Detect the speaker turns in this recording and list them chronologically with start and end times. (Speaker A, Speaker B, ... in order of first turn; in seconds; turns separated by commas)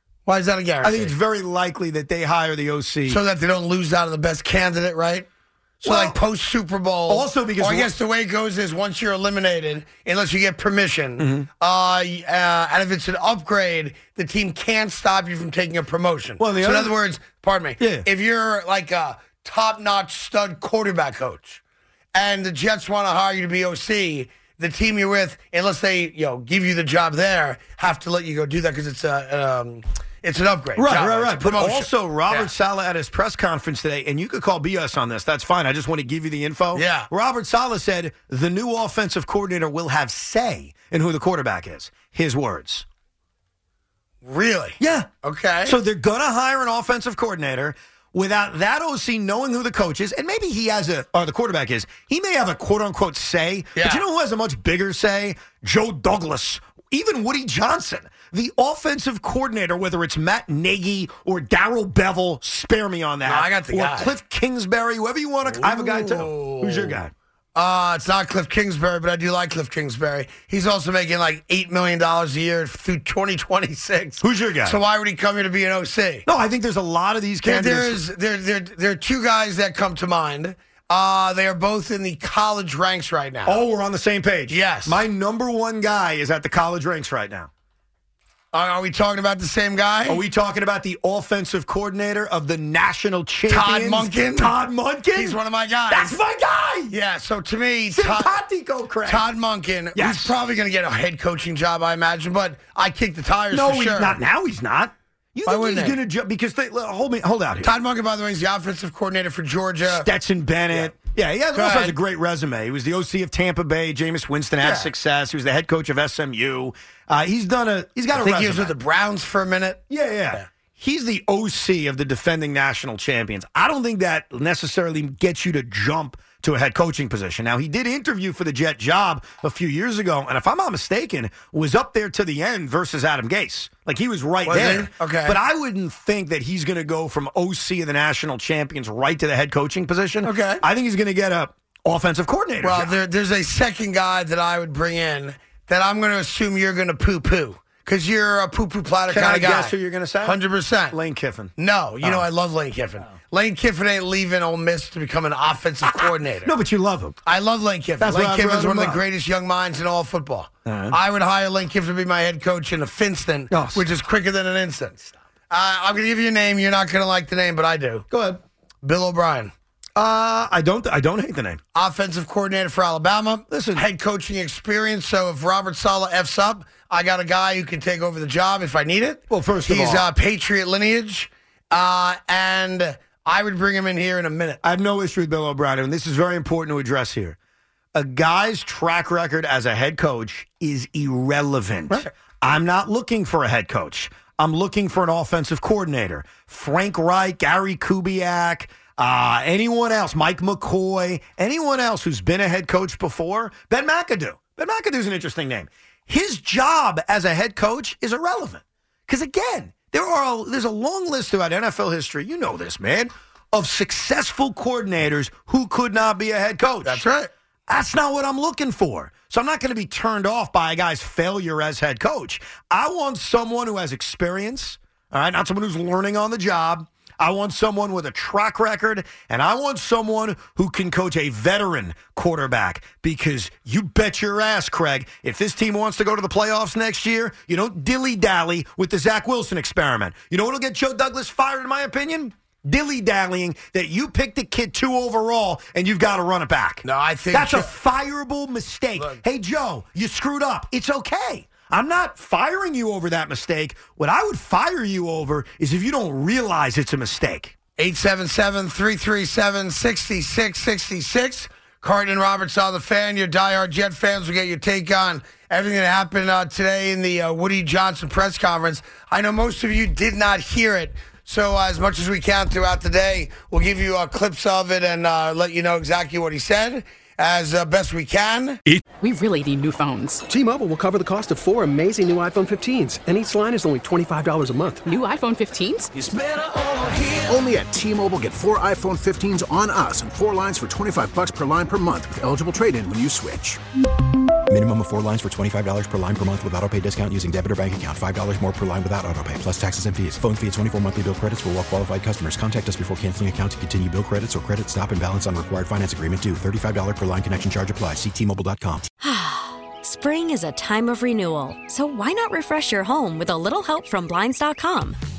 Speaker A: 0.2-1.1, Speaker B: 0.8-3.2, Speaker A: 3.1-5.3, Speaker A: 5.8-21.6, Speaker B: 5.8-6.2, Speaker B: 7.1-7.9, Speaker B: 11.2-11.5, Speaker B: 16.4-16.9, Speaker B: 17.8-18.1, Speaker A: 22.1-32.5, Speaker B: 30.8-42.9, Speaker A: 36.7-37.1, Speaker A: 44.2-45.8, Speaker B: 44.8-45.1, Speaker B: 45.6-67.1, Speaker A: 63.2-64.1, Speaker A: 65.5-67.0, Speaker A: 67.5-76.2, Speaker B: 74.2-74.8, Speaker B: 76.2-78.0, Speaker A: 77.4-83.6, Speaker B: 83.4-87.5, Speaker A: 84.5-85.0, Speaker A: 88.5-90.2, Speaker B: 90.1-96.9, Speaker A: 93.5-94.5, Speaker A: 95.1-96.2, Speaker A: 96.9-98.4, Speaker B: 97.9-99.3, Speaker A: 99.0-104.2, Speaker B: 99.9-100.3, Speaker B: 103.5-107.7, Speaker A: 105.5-106.0, Speaker A: 107.6-110.1, Speaker B: 109.8-118.7, Speaker A: 111.5-111.9, Speaker A: 114.6-114.9, Speaker A: 118.1-120.5, Speaker B: 119.9-142.9, Speaker A: 134.5-135.4, Speaker A: 140.2-140.6, Speaker A: 142.6-150.9, Speaker B: 149.1-150.4, Speaker B: 150.9-152.2, Speaker A: 151.6-156.5, Speaker B: 155.9-157.2, Speaker A: 157.2-168.1, Speaker B: 158.0-159.0, Speaker B: 160.6-161.0, Speaker B: 163.5-163.8, Speaker B: 168.1-168.4, Speaker A: 168.8-169.5, Speaker B: 169.9-171.6, Speaker A: 171.7-184.6, Speaker B: 173.5-173.8, Speaker B: 179.3-180.1, Speaker B: 184.6-187.3, Speaker B: 187.9-217.0, Speaker A: 216.8-217.3, Speaker B: 217.7-257.5, Speaker A: 246.8-247.7, Speaker A: 257.8-278.6, Speaker C: 279.0-280.2, Speaker D: 280.3-284.9, Speaker C: 284.9-285.9, Speaker E: 285.9-293.6, Speaker F: 294.5-308.9, Speaker G: 309.0-315.0